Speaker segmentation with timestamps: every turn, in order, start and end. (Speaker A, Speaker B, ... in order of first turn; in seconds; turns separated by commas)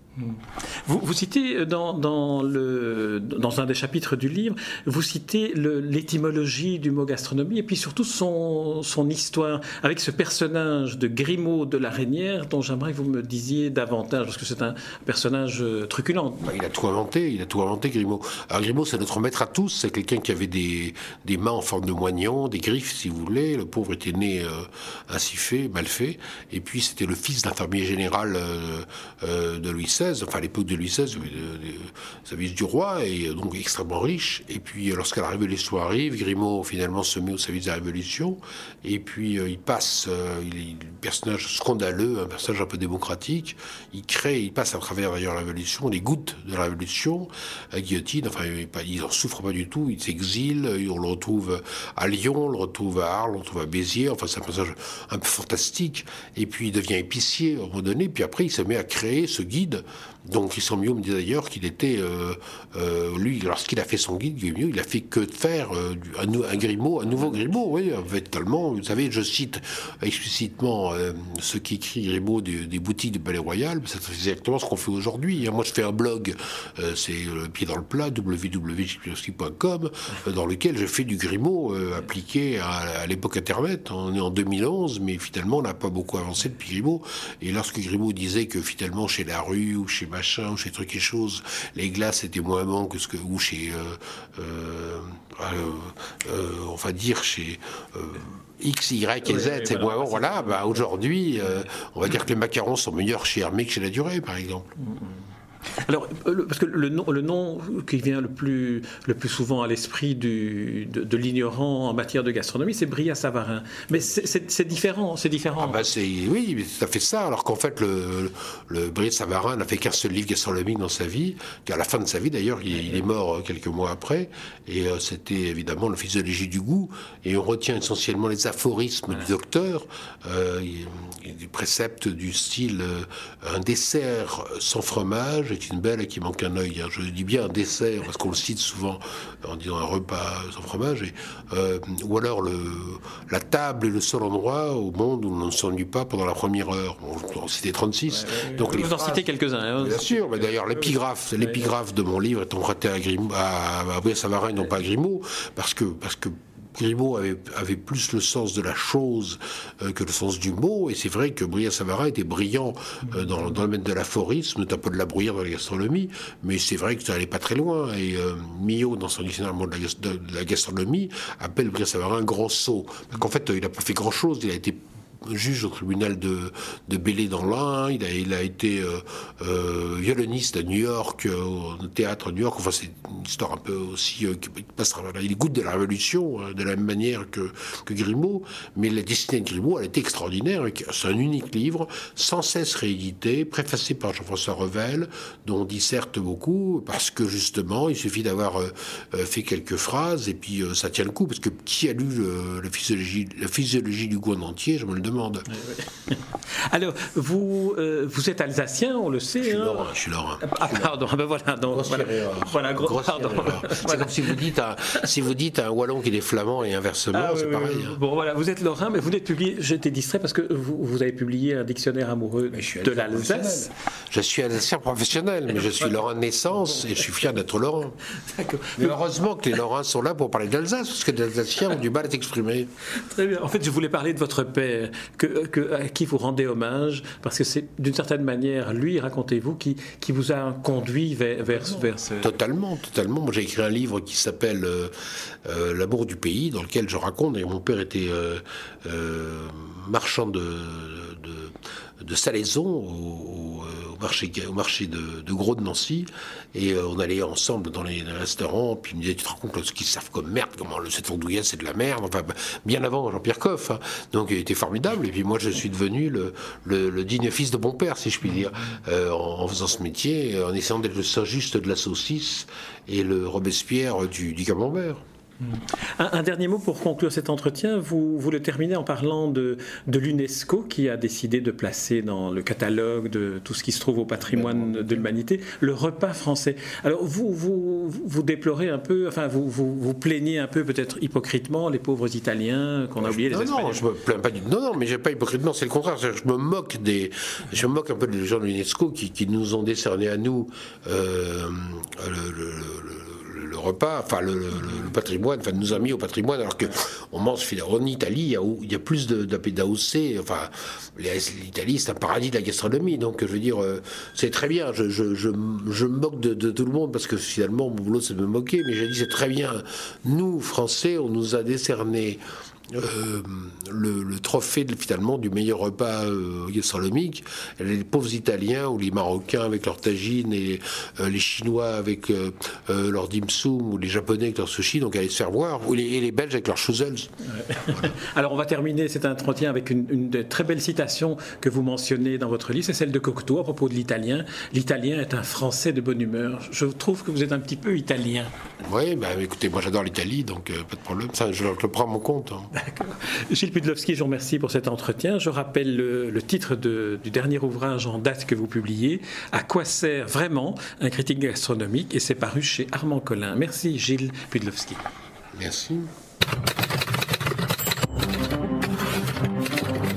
Speaker A: 0.2-16.5, Speaker B: 16.4-104.7, Speaker A: 99.2-100.9, Speaker A: 105.8-115.8, Speaker B: 115.6-149.2, Speaker A: 148.1-151.5, Speaker B: 149.8-205.5, Speaker A: 205.6-214.4, Speaker B: 209.4-210.9, Speaker B: 211.7-218.0, Speaker A: 217.1-223.7, Speaker B: 222.5-228.0, Speaker A: 228.2-228.9, Speaker B: 228.8-232.7, Speaker A: 232.9-242.3, Speaker B: 242.2-244.9, Speaker B: 245.4-275.0, Speaker A: 275.4-293.8, Speaker B: 284.2-285.1, Speaker B: 293.0-322.2, Speaker B: 322.7-337.1, Speaker A: 337.2-348.3, Speaker B: 348.6-352.5, Speaker A: 352.5-364.8, Speaker B: 365.4-365.9